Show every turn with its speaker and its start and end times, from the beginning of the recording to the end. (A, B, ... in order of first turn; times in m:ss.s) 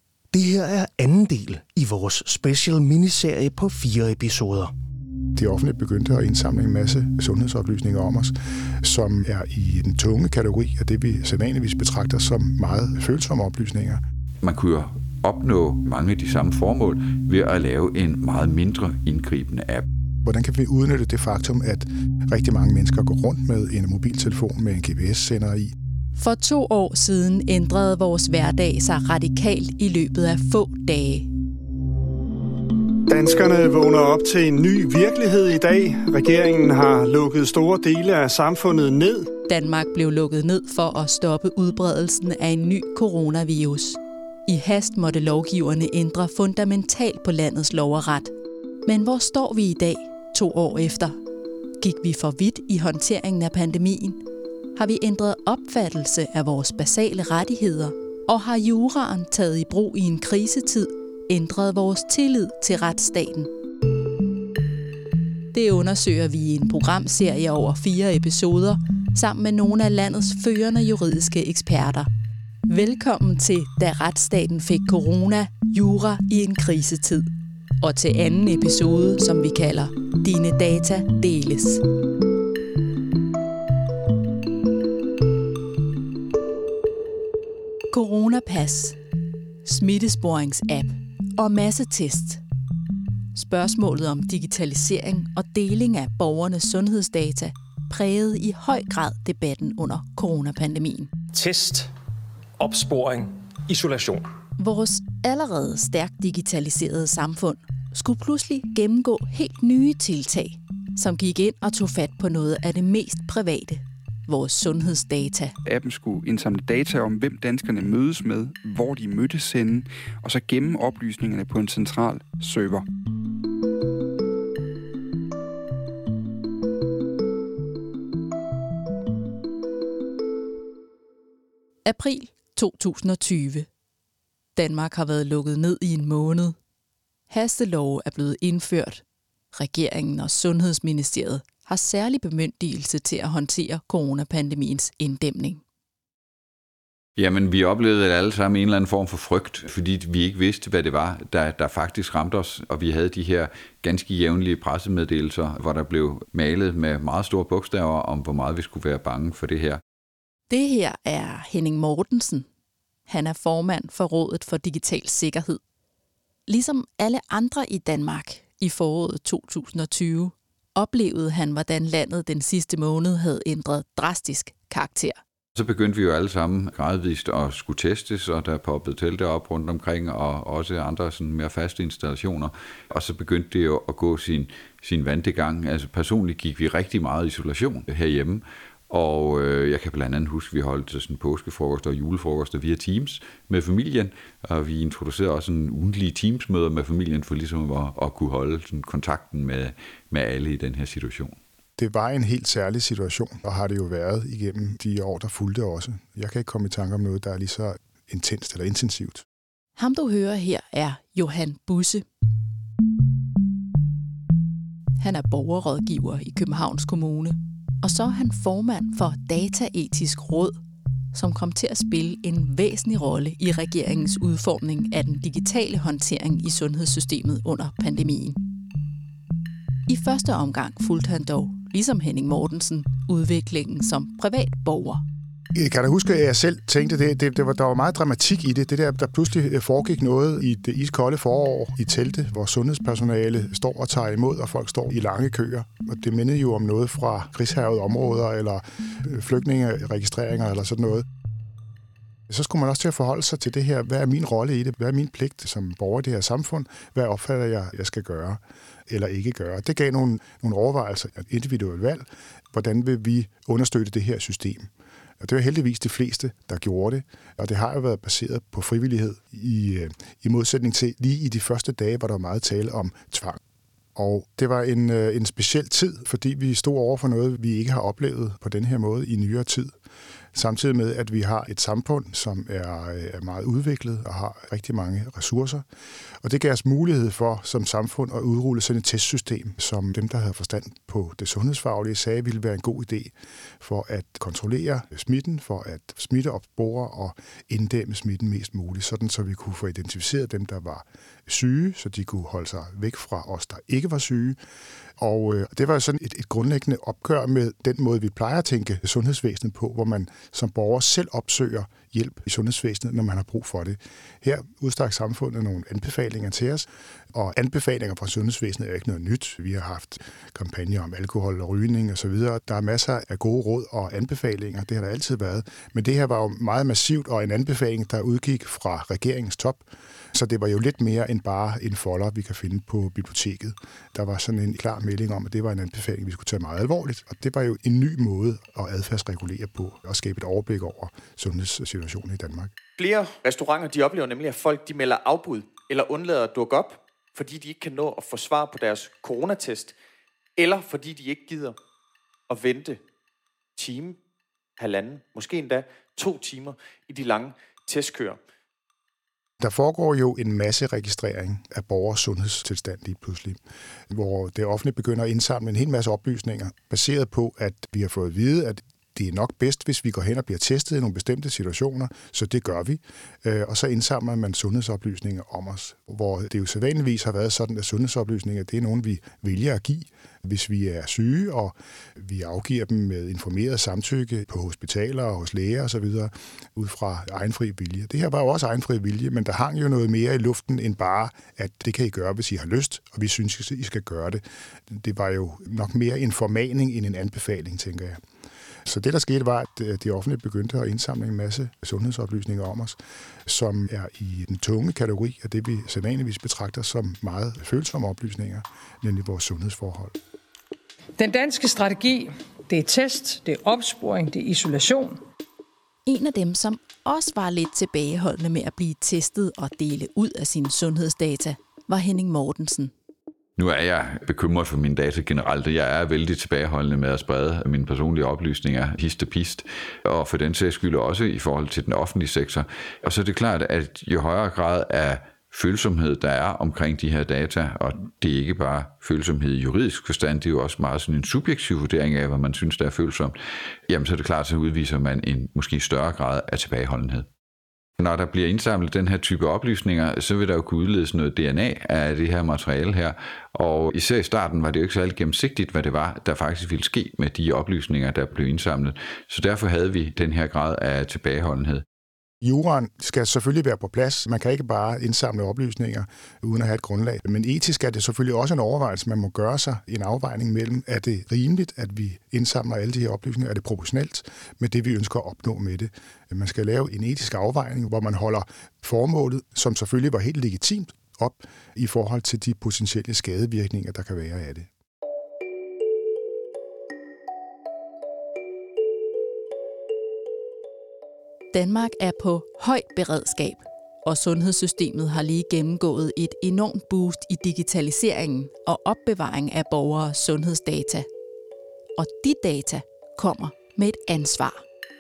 0:00.3-0:04.7 A
0:05.4-0:14.0 B
0:14.4-0:19.9 C
0:20.2-0:25.8 B
0:26.2-0:31.3 D
0:33.1-0:39.3 E
0:39.5-0:48.3 D
0:48.9-0:51.2 D
0:51.8-0:54.2 D
0:54.8-1:03.5 D
1:05.5-1:12.1 D
1:12.7-1:17.3 D
1:17.8-1:21.8 D
1:27.9-1:29.0 D
1:29.6-1:32.4 D
1:33.4-1:41.1 D
1:41.3-1:41.9 F
1:42.6-1:44.3 F
1:44.6-1:55.5 D
1:55.6-2:02.8 G
2:11.8-2:13.7 D
2:14.6-2:16.6 D
2:17.3-2:19.0 D
2:19.5-2:25.6 D
2:27.2-2:39.8 C
2:40.5-2:42.5 D
2:43.1-2:45.6 D
2:46.5-2:55.2 D
2:55.6-3:21.4 C
3:21.8-3:29.2 B
3:29.8-3:32.0 D
3:35.0-3:40.6 D
3:41.1-3:48.4 D
3:49.9-3:55.0 D
3:55.5-4:11.1 B
4:12.3-4:33.4 B
4:34.0-4:39.8 B
4:40.3-4:45.6 B
4:46.2-5:04.4 B
5:05.0-5:42.5 B
5:42.8-5:49.8 H
5:50.4-5:51.6 H
5:52.3-5:52.8 H
5:53.6-5:54.0 H
5:54.6-5:58.2 H
5:59.4-6:03.4 B
6:03.9-6:38.0 B
6:38.7-6:50.0 B
6:51.0-6:55.0 I
6:55.9-7:02.7 D
7:03.4-7:23.2 C
7:23.7-7:27.1 C
7:27.8-7:41.6 C
7:42.2-8:04.5 B
8:11.3-8:20.9 D
8:21.8-8:24.4 D